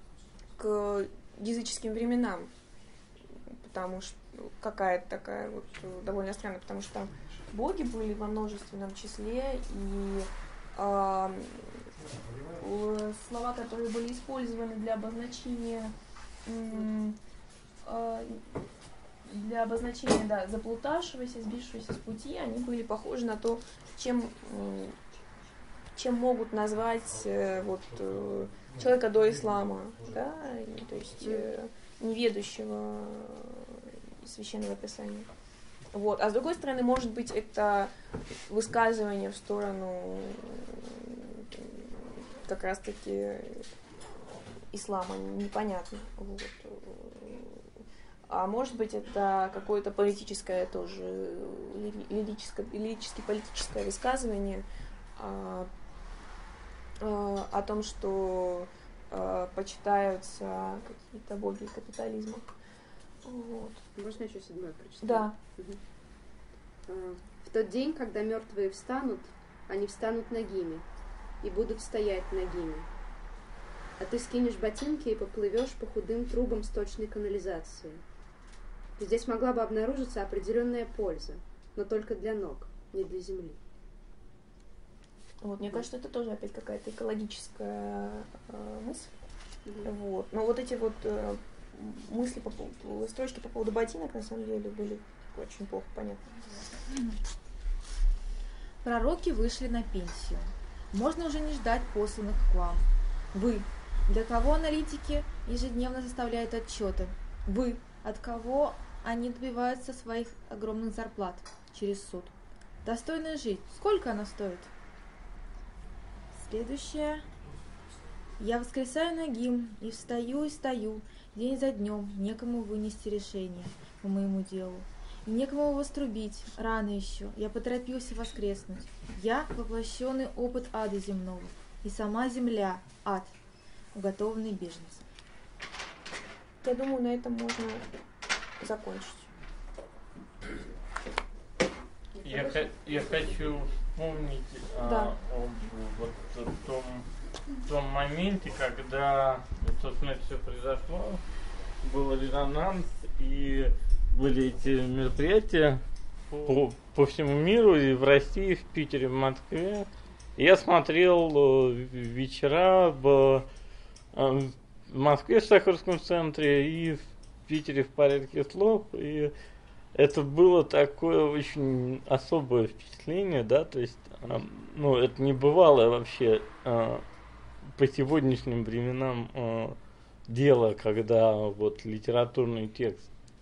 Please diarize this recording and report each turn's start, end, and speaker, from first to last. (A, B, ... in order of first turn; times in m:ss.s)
0:00.6-0:02.5 A
0:03.6-0:11.9 A
0:12.6-0:15.9 A
0:16.5-0:17.2 A
0:17.8-0:18.6 A
0:19.2-0:25.0 A
0:25.9-0:35.3 A
0:35.9-0:37.9 A
0:38.5-0:43.7 A
0:44.7-0:47.7 A
0:48.3-0:54.7 A
0:55.2-0:55.7 A
0:57.0-1:02.5 A
1:03.2-1:03.8 A
1:04.0-1:05.8 B
1:05.0-1:05.4 A
1:06.9-1:10.8 B
1:11.4-1:12.9 B
1:14.0-1:18.0 B
1:19.0-1:23.6 B
1:25.4-1:29.3 A
1:29.8-1:36.4 A
1:36.9-1:37.2 C
1:38.8-1:52.3 C
1:52.8-1:54.7 C
1:56.3-1:57.3 C
1:58.4-2:13.4 C
2:13.9-2:15.0 C
2:16.6-2:17.9 A
2:18.6-2:19.3 A
2:22.2-2:27.1 D
2:24.8-2:25.1 A
2:27.6-2:31.2 D
2:31.8-2:43.5 D
2:44.1-2:49.3 D
2:49.9-2:57.0 D
2:57.6-3:03.1 D